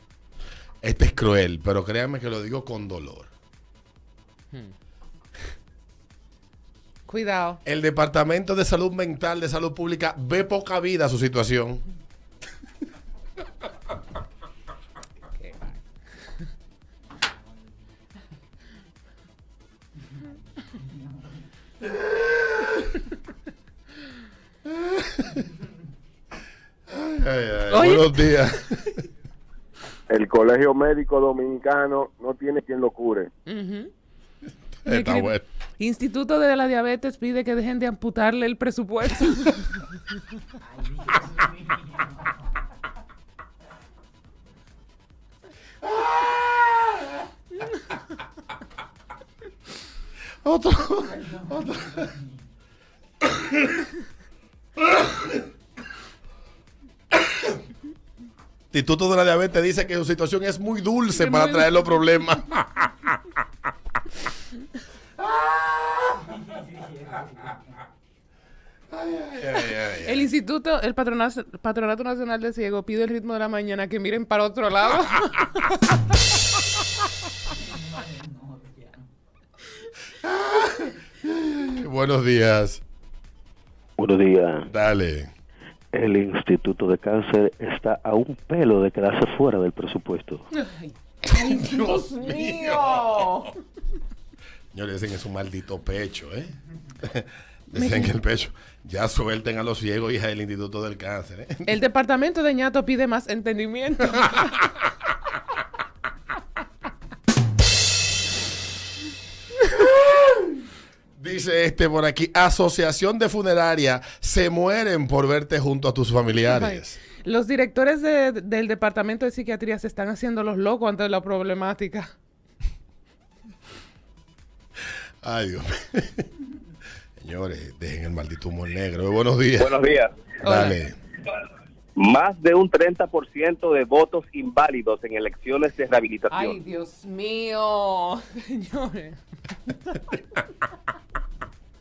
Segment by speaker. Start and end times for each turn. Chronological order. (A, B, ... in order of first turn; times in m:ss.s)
0:00.8-0:03.3 A
0:07.1-0:07.6 B
0:07.6-0:11.8 A
0:15.4-0:15.8 B
0:22.0-0:22.8 A
0:24.7-0:25.4 A
0:26.9-0:28.8 A
0:27.7-0:28.3 B
0:30.1-0:33.3 C
0:33.5-0:33.9 B
0:34.8-0:35.4 A
0:34.9-0:39.7 B
0:50.4-0:52.1 A
0:58.7-1:03.1 A
1:01.2-1:01.9 B
1:05.2-1:06.2 A
1:08.9-1:10.3 A
1:10.1-1:15.6 B
1:20.2-1:22.8 A
1:24.0-1:24.7 D
1:24.7-1:25.3 A
1:25.9-1:30.4 D
1:30.6-1:33.5 B
1:31.3-1:33.5 A
1:34.7-1:41.7 A
1:37.8-1:38.1 B
1:41.7-1:44.4 B
1:49.8-1:50.5 A
1:51.2-1:57.0 A
1:56.5-2:02.1 B
2:05.2-2:06.2 A
2:07.2-2:09.8 A
2:09.6-2:10.1 E
2:10.4-2:10.8 B
2:10.4-2:11.0 A
2:12.0-2:16.6 E
2:16.3-2:19.2 B